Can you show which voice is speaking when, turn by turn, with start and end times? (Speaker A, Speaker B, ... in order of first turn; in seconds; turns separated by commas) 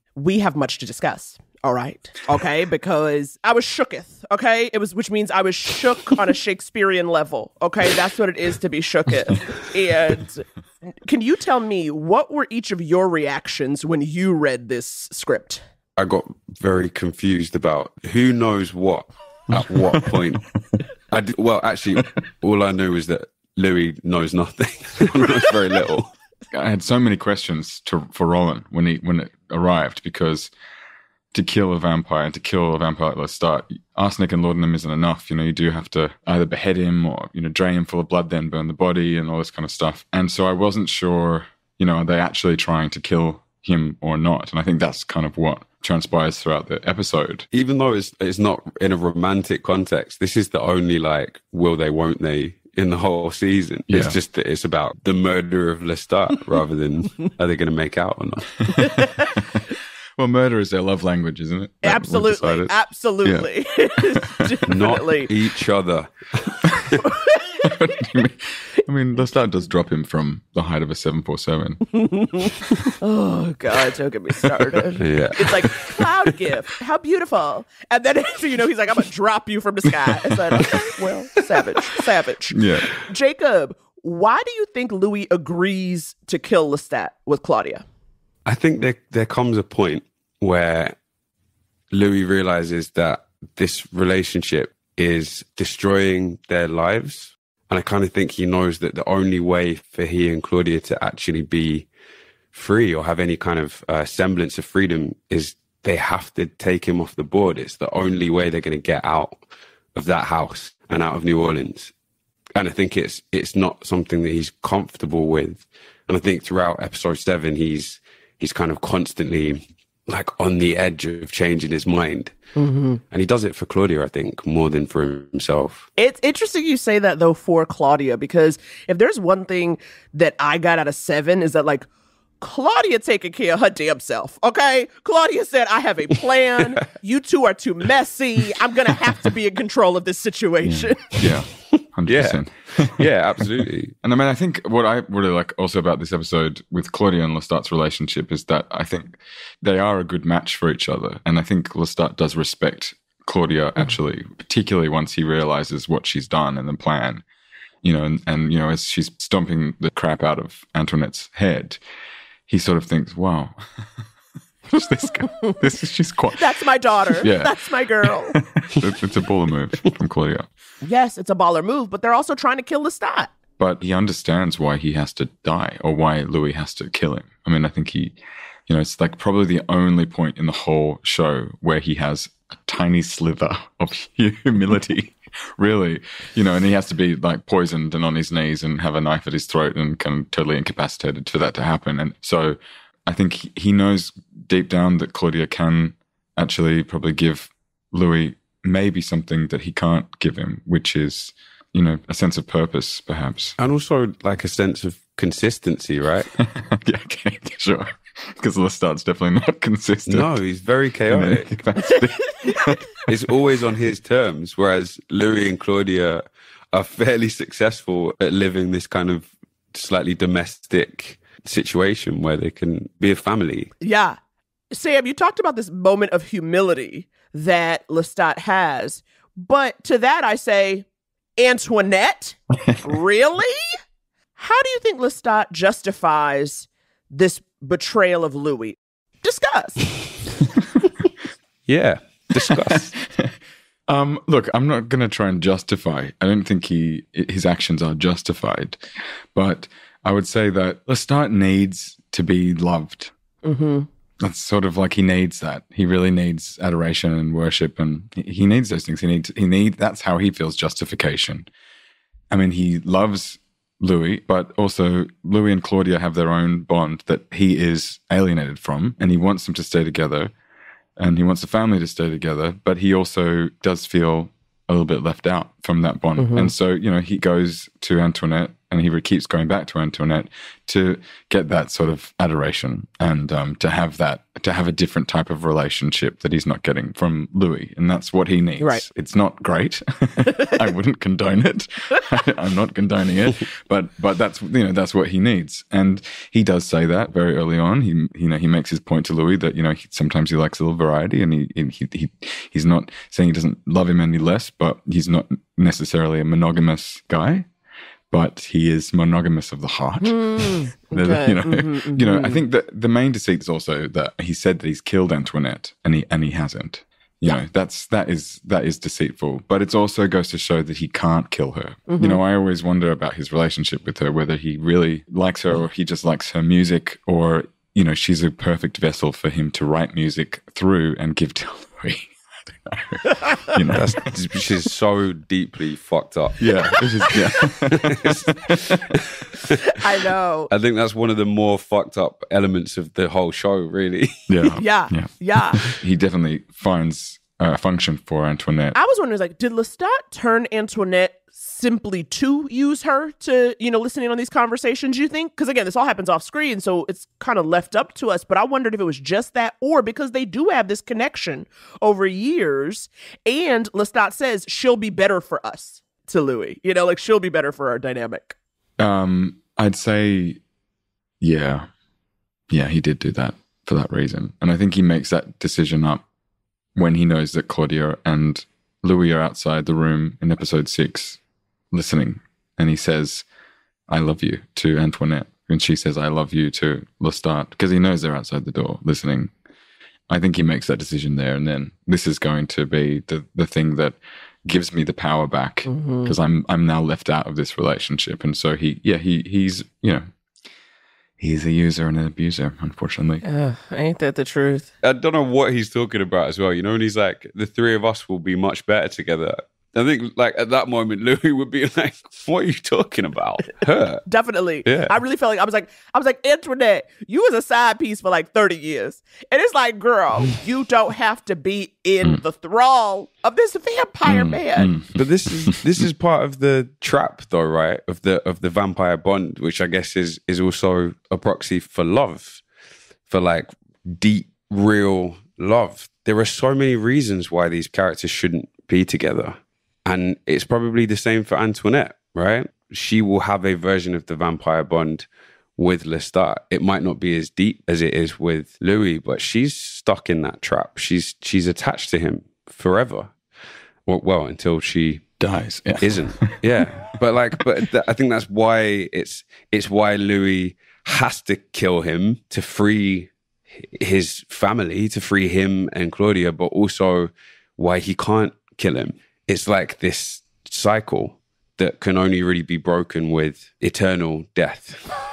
Speaker A: 0.2-10.4, Speaker A: 11.1-15.6, Speaker B: 16.0-20.5, Speaker C: 19.5-20.1, Speaker B: 21.1-26.1, Speaker C: 26.5-30.5, Speaker C: 31.3-47.5, Speaker B: 47.5-58.8, Speaker C: 53.9-54.2, Speaker C: 58.8-59.6, Speaker C: 60.2-64.3, Speaker A: 61.8-65.3, Speaker B: 64.7-66.7, Speaker A: 67.0-67.7, Speaker C: 67.6-72.1, Speaker A: 73.0-87.8, Speaker B: 75.0-75.4, Speaker C: 82.5-82.9, Speaker B: 88.5-91.0, Speaker B: 91.9-101.9, Speaker B: 102.5-109.4, Speaker B: 110.0-111.9, Speaker B: 112.6-122.3, Speaker A: 122.5-123.0, Speaker B: 123.1-125.9, Speaker A: 126.0-131.9, Speaker A: 132.4-141.2, Speaker C: 140.6-143.1, Speaker B: 142.1-143.9, Speaker C: 144.0-157.2, Speaker C: 157.8-161.8, Speaker C: 162.5-163.8, Speaker C: 164.7-170.4, Speaker A: 166.3-168.4, Speaker A: 170.8-173.3, Speaker C: 173.6-203.6, Speaker B: 203.6-206.3, Speaker C: 206.4-210.4, Speaker B: 210.1-211.5, Speaker C: 211.1-212.9, Speaker B: 213.0-223.7, Speaker A: 223.8-224.2, Speaker A: 224.7-230.8, Speaker A: 231.4-233.7, Speaker A: 234.4-239.9, Speaker B: 241.7-243.0, Speaker C: 243.9-248.8, Speaker C: 249.3-253.1, Speaker A: 253.4-253.9, Speaker C: 254.2-261.5, Speaker C: 262.3-270.3, Speaker C: 271.0-307.5, Speaker A: 276.2-276.5, Speaker A: 288.6-288.9, Speaker C: 308.1-334.0, Speaker A: 310.0-312.4, Speaker A: 321.9-322.2, Speaker B: 333.7-336.8, Speaker C: 336.4-338.6, Speaker B: 337.7-339.2, Speaker A: 339.8-340.5, Speaker B: 340.5-344.2, Speaker C: 344.3-348.8, Speaker A: 344.6-345.6, Speaker A: 348.8-368.4, Speaker C: 368.8-370.4, Speaker C: 371.2-371.7, Speaker C: 372.5-376.0, Speaker C: 376.8-381.2, Speaker C: 381.7-383.2, Speaker C: 383.9-389.3, Speaker C: 390.1-400.1, Speaker A: 395.7-396.1, Speaker C: 401.2-403.2, Speaker A: 403.2-404.7, Speaker B: 404.8-414.1, Speaker A: 414.1-424.7, Speaker B: 414.6-415.0, Speaker C: 424.1-425.6, Speaker B: 424.9-432.4, Speaker B: 433.1-445.1, Speaker B: 445.6-453.1, Speaker B: 453.9-455.1, Speaker C: 455.2-456.4, Speaker B: 455.8-475.0